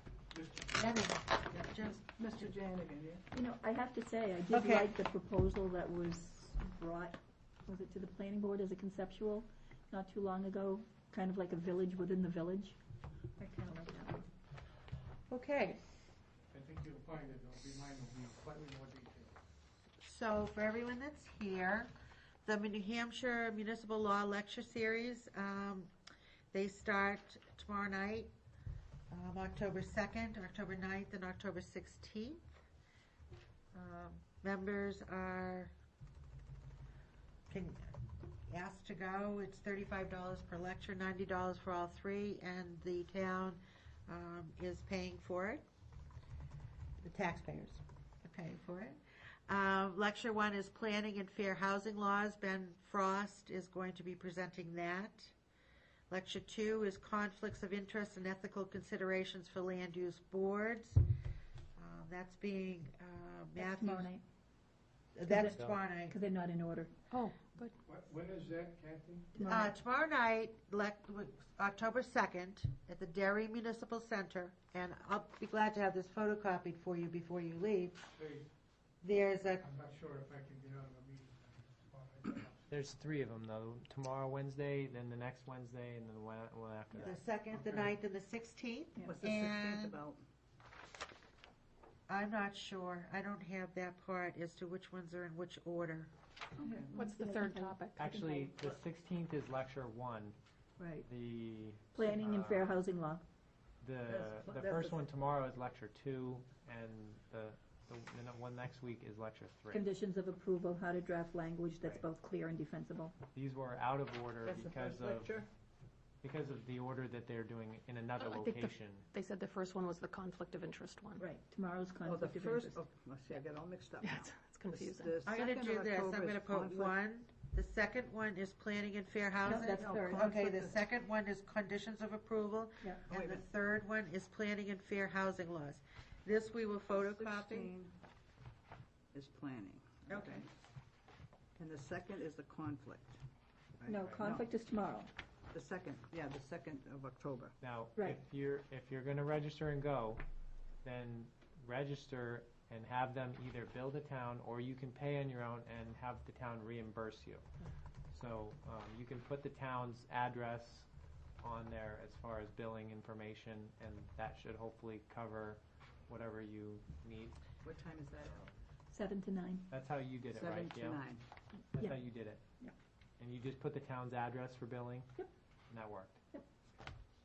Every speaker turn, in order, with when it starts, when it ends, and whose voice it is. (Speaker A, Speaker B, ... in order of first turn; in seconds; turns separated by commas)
Speaker A: 0.3-0.8, Speaker B: 0.8-2.0, Speaker C: 2.1-3.2, Speaker D: 3.3-12.8, Speaker B: 4.5-4.9, Speaker D: 13.4-14.2, Speaker B: 15.3-15.9, Speaker A: 16.5-19.4, Speaker B: 20.0-21.9, Speaker B: 22.4-25.9, Speaker B: 26.5-28.3, Speaker B: 29.1-32.5, Speaker B: 33.7-35.7, Speaker B: 37.5-38.0, Speaker B: 38.5-45.6, Speaker B: 47.0-55.4, Speaker B: 56.1-61.0, Speaker B: 61.8-64.1, Speaker D: 63.6-64.2, Speaker B: 65.2-66.1, Speaker D: 65.3-67.0, Speaker E: 67.1-67.7, Speaker A: 67.8-69.4, Speaker D: 69.3-69.7, Speaker B: 69.4-78.1, Speaker A: 78.2-78.5, Speaker B: 79.0-79.7, Speaker A: 79.6-82.8, Speaker F: 82.7-87.2, Speaker B: 87.0-90.0, Speaker A: 87.5-87.9, Speaker C: 89.1-90.2, Speaker B: 92.1-96.1, Speaker D: 96.6-98.8, Speaker C: 96.6-97.1, Speaker E: 96.9-98.0, Speaker F: 98.0-100.4, Speaker D: 100.8-101.1, Speaker F: 101.0-102.7, Speaker D: 101.9-103.2, Speaker F: 103.8-109.9, Speaker C: 104.1-105.0, Speaker D: 109.7-113.2, Speaker F: 113.3-115.4, Speaker C: 114.4-115.5, Speaker F: 116.2-119.1, Speaker E: 118.2-121.2, Speaker D: 121.2-122.8, Speaker C: 122.1-126.9, Speaker E: 124.0-125.1, Speaker B: 125.2-137.7, Speaker D: 129.4-130.2, Speaker C: 129.6-130.8, Speaker C: 133.1-133.4, Speaker C: 136.9-137.9, Speaker C: 139.1-140.5, Speaker B: 140.1-140.5, Speaker C: 141.6-143.2, Speaker C: 143.8-144.5, Speaker D: 143.9-145.1, Speaker F: 144.0-144.3, Speaker C: 145.5-147.6, Speaker F: 147.6-150.2, Speaker F: 150.8-157.5, Speaker F: 158.1-160.9, Speaker F: 161.4-167.4, Speaker C: 167.6-168.4, Speaker D: 168.9-169.7, Speaker F: 169.7-171.0, Speaker C: 170.3-171.2, Speaker F: 171.7-172.4, Speaker D: 171.7-172.8, Speaker F: 173.2-175.1, Speaker F: 175.7-176.2